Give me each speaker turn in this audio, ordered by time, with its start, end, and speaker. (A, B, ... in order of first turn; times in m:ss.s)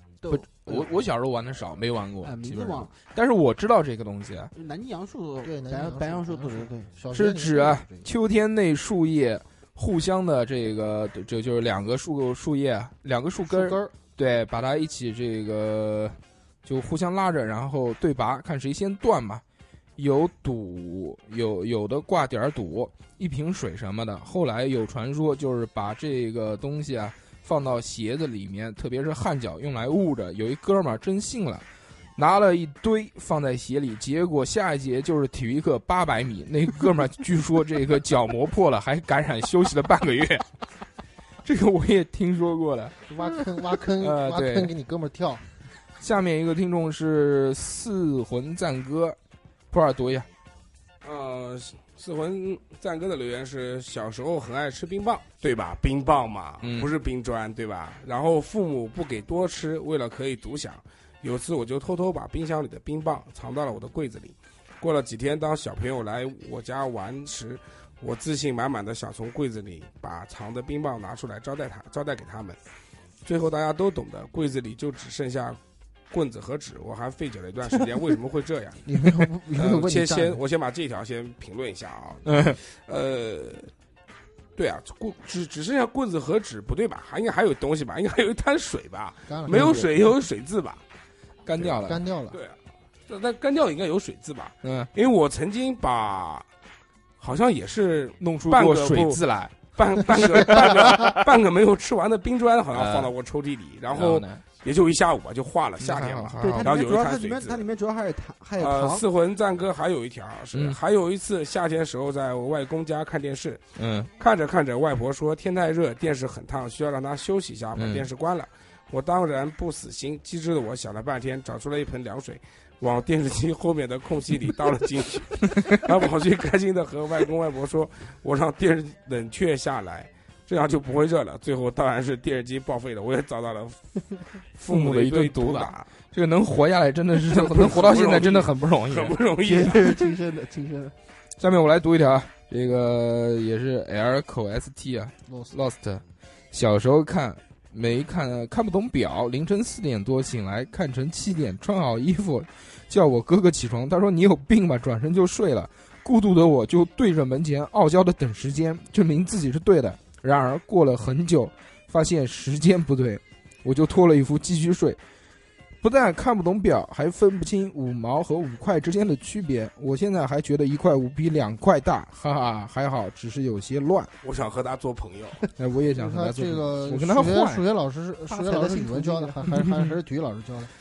0:00.3-0:04.5 A
0:02.2-0:02.9 B
0:04.5-0:06.9 B
0:05.4-0:08.1 C
0:07.1-0:19.4 A
0:13.4-0:13.9 C
0:20.0-0:31.6 A
0:32.2-0:40.4 A
0:41.4-0:42.9 A
0:43.1-0:45.4 C
0:44.0-0:44.7 A
0:46.0-0:49.2 A
0:49.7-0:50.3 A
0:51.0-1:12.6 D
0:56.6-0:56.9 A
1:13.2-1:15.6 D
1:16.1-1:18.8 D
1:18.8-1:20.4 C
1:19.6-1:23.7 D
1:22.2-1:22.6 A
1:24.6-1:30.8 D
1:29.3-1:29.9 C
1:31.4-1:32.0 A
1:31.6-1:32.4 C
1:32.3-1:36.4 D
1:34.6-1:34.9 A
1:37.2-1:39.2 D
1:38.2-1:41.1 A
1:39.7-1:47.6 D
1:42.7-1:43.1 A
1:43.9-1:44.4 A
1:45.8-1:46.7 A
1:46.4-1:49.0 B
1:48.6-1:53.6 D
1:53.8-1:54.1 A
1:54.2-2:14.0 D
1:57.7-1:58.0 A
2:14.6-2:19.1 A
2:14.6-2:15.9 D
2:17.3-2:20.0 D
2:19.4-2:20.9 B
2:21.4-2:45.0 A
2:25.3-2:25.6 C
2:45.8-2:54.1 A
2:54.2-2:55.4 D
2:55.6-2:57.6 A
2:55.9-3:00.7 C
2:58.3-2:59.5 B
2:59.6-2:59.9 A